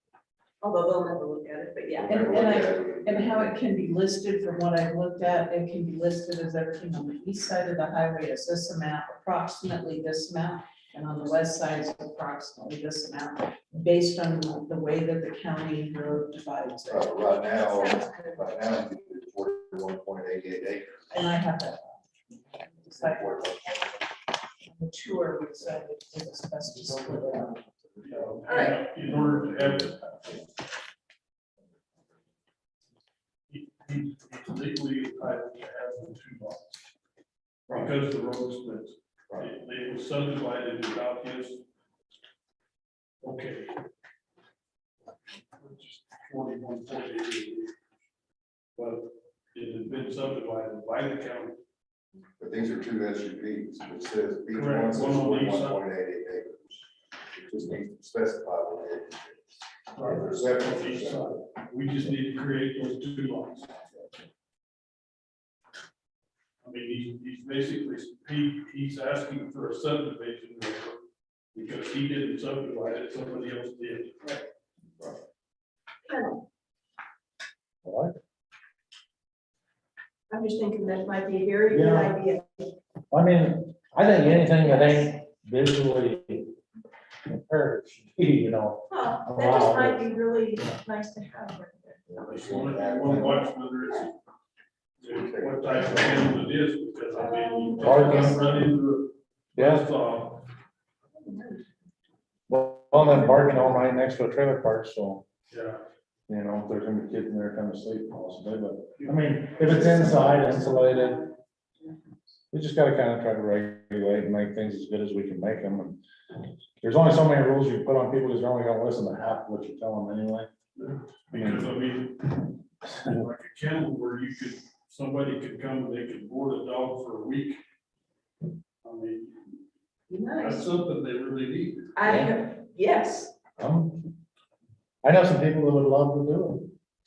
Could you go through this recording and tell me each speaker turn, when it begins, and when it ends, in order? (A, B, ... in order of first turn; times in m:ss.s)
0:00.6-0:02.7 A
0:02.0-0:03.6 B
0:02.0-0:17.1 C
0:16.9-0:21.0 B
0:17.5-0:18.6 A
0:21.1-0:22.0 C
0:22.6-0:23.5 C
0:23.0-0:23.9 B
0:24.6-0:27.6 C
0:28.0-0:30.4 D
0:28.4-0:28.8 A
0:33.5-0:36.8 D
0:37.7-0:41.6 D
0:43.2-0:43.8 D
0:45.6-0:47.8 D
0:48.8-0:51.6 D
0:52.4-0:56.8 B
0:54.5-0:55.8 D
0:57.3-1:01.4 B
0:59.9-1:03.8 D
1:06.6-1:11.0 D
1:11.5-1:14.4 D
1:16.0-1:16.4 A
1:17.8-1:18.2 E
1:20.3-1:22.7 A
1:21.7-1:22.2 E
1:23.1-1:26.5 E
1:24.7-1:25.1 A
1:27.3-1:30.0 E
1:28.9-1:32.2 A
1:32.1-1:33.5 B
1:32.2-1:34.2 D
1:33.7-1:34.1 A
1:35.0-1:36.4 B
1:35.0-1:40.4 D
1:37.1-1:38.4 A
1:37.8-1:38.4 E
1:39.6-1:39.9 E
1:41.2-1:41.6 A
1:42.5-1:45.2 E
1:43.0-1:43.7 B
1:45.5-1:45.8 D
1:46.3-1:51.3 E
1:49.0-1:50.0 D
1:52.5-1:56.0 E
1:56.8-2:00.5 E
2:00.8-2:07.6 D
2:01.3-2:01.7 E
2:08.8-2:09.6 D
2:10.1-2:10.7 A
2:10.3-2:11.9 D
2:12.0-2:13.3 A
2:12.0-2:12.3 E
2:13.6-2:14.2 E
2:15.0-2:16.7 E